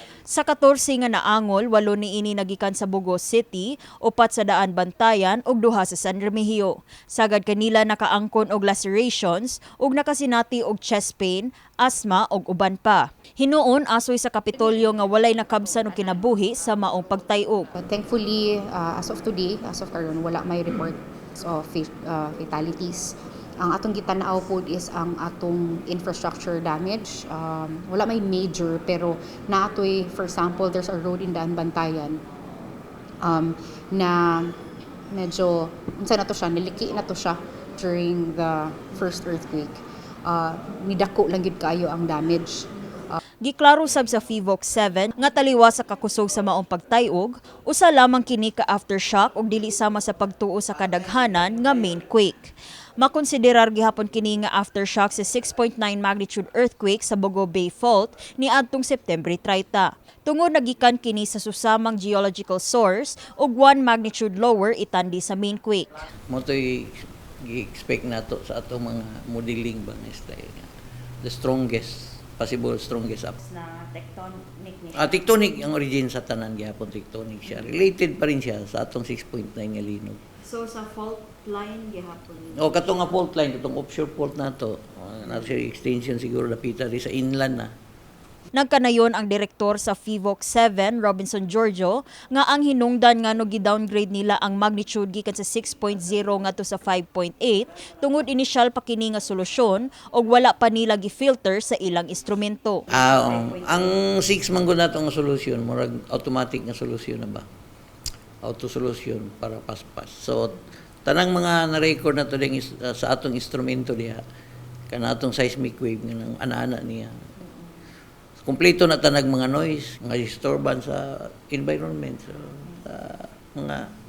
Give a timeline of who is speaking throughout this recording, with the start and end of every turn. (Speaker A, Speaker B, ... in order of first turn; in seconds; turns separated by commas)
Speaker A: 0.2-17.7, Speaker B: 17.8-32.2, Speaker B: 33.2-34.5, Speaker B: 35.1-43.2, Speaker A: 43.4-65.9, Speaker C: 66.3-70.7, Speaker C: 71.2-73.4, Speaker A: 73.4-75.2, Speaker C: 74.9-80.2, Speaker A: 80.4-83.2, Speaker C: 82.5-87.7, Speaker A: 88.5-103.8, Speaker C: 102.9-107.4, Speaker C: 108.4-114.2, Speaker C: 114.9-117.1, Speaker C: 118.4-123.9